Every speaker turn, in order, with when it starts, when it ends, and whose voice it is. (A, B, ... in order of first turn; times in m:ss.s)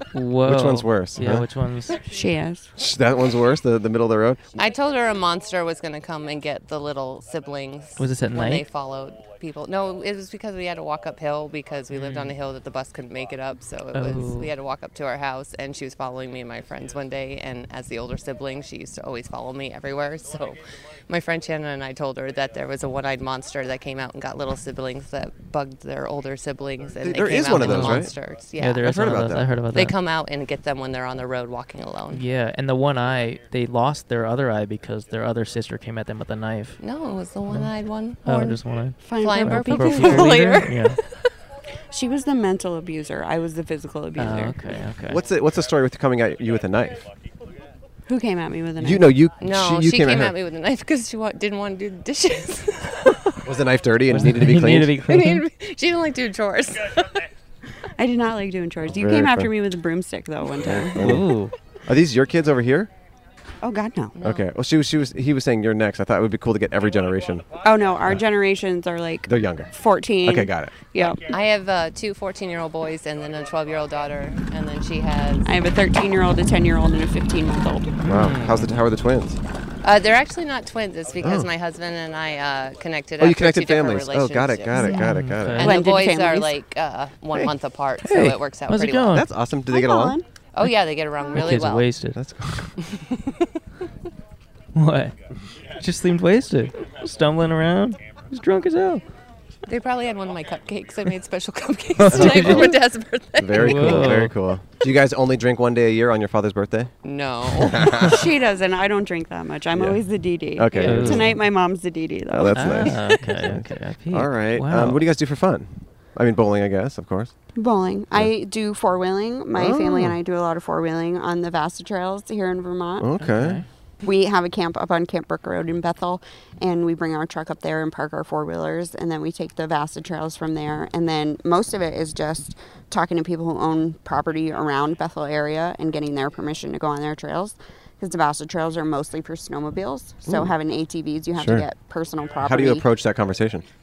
0:00.1-0:02.0 A
0:00.4-0:01.5 B
0:02.0-0:02.7 C
0:02.8-0:04.5 B
0:04.6-0:29.0 D
0:08.0-0:08.6 A
0:11.9-0:12.3 A
0:13.9-0:14.5 A
0:27.0-0:28.1 B
0:27.5-0:30.0 A
0:28.8-0:29.5 B
0:29.7-0:32.2 D
0:32.1-0:36.8 A
0:36.8-0:38.6 D
0:38.2-0:41.0 A
0:39.0-0:40.6 C
0:39.2-0:40.8 D
0:41.9-0:44.6 C
0:44.2-0:45.2 A
0:45.1-0:47.0 B
0:48.1-0:49.1 C
0:48.8-0:50.4 B
0:49.4-0:53.1 D
0:53.4-0:55.0 B
0:54.1-0:55.4 A
0:55.0-0:57.1 D
0:58.0-1:01.2 C
0:58.9-0:59.5 B
1:00.6-1:02.9 B
1:01.0-1:01.5 A
1:03.6-1:04.2 C
1:04.2-1:04.4 D
1:04.2-1:08.2 B
1:07.6-1:11.2 C
1:09.3-1:09.7 B
1:10.2-1:10.9 B
1:11.2-1:15.5 D
1:15.5-1:18.0 C
1:18.0-1:18.8 A
1:18.0-1:19.4 B
1:19.8-1:25.0 D
1:21.2-1:21.5 B
1:23.2-1:25.8 B
1:24.8-1:25.8 A
1:25.6-1:29.2 D
1:25.6-1:26.6 C
1:28.0-1:28.3 B
1:28.0-1:29.3 A
1:29.1-1:30.2 B
1:29.7-1:30.2 C
1:30.5-1:32.0 D
1:31.3-1:32.2 A
1:32.1-1:32.7 B
1:32.8-1:33.3 D
1:34.8-1:35.1 A
1:35.8-1:39.0 A
1:39.7-1:44.2 D
1:42.0-1:42.8 A
1:42.1-1:42.8 B
1:43.4-1:46.9 B
1:43.6-1:44.4 A
1:47.0-1:48.1 D
1:47.6-1:48.3 B
1:48.0-1:53.1 C
1:49.7-1:50.0 B
1:50.6-1:51.4 B
1:50.8-1:51.4 A
1:52.3-1:57.3 B
1:52.5-1:55.0 A
1:57.6-2:03.1 C
1:59.6-2:00.2 B
2:03.0-2:03.6 B
2:03.2-2:03.6 A
2:04.0-2:22.9 C
2:20.3-2:20.6 B
2:21.4-2:21.7 B
2:22.4-2:23.6 B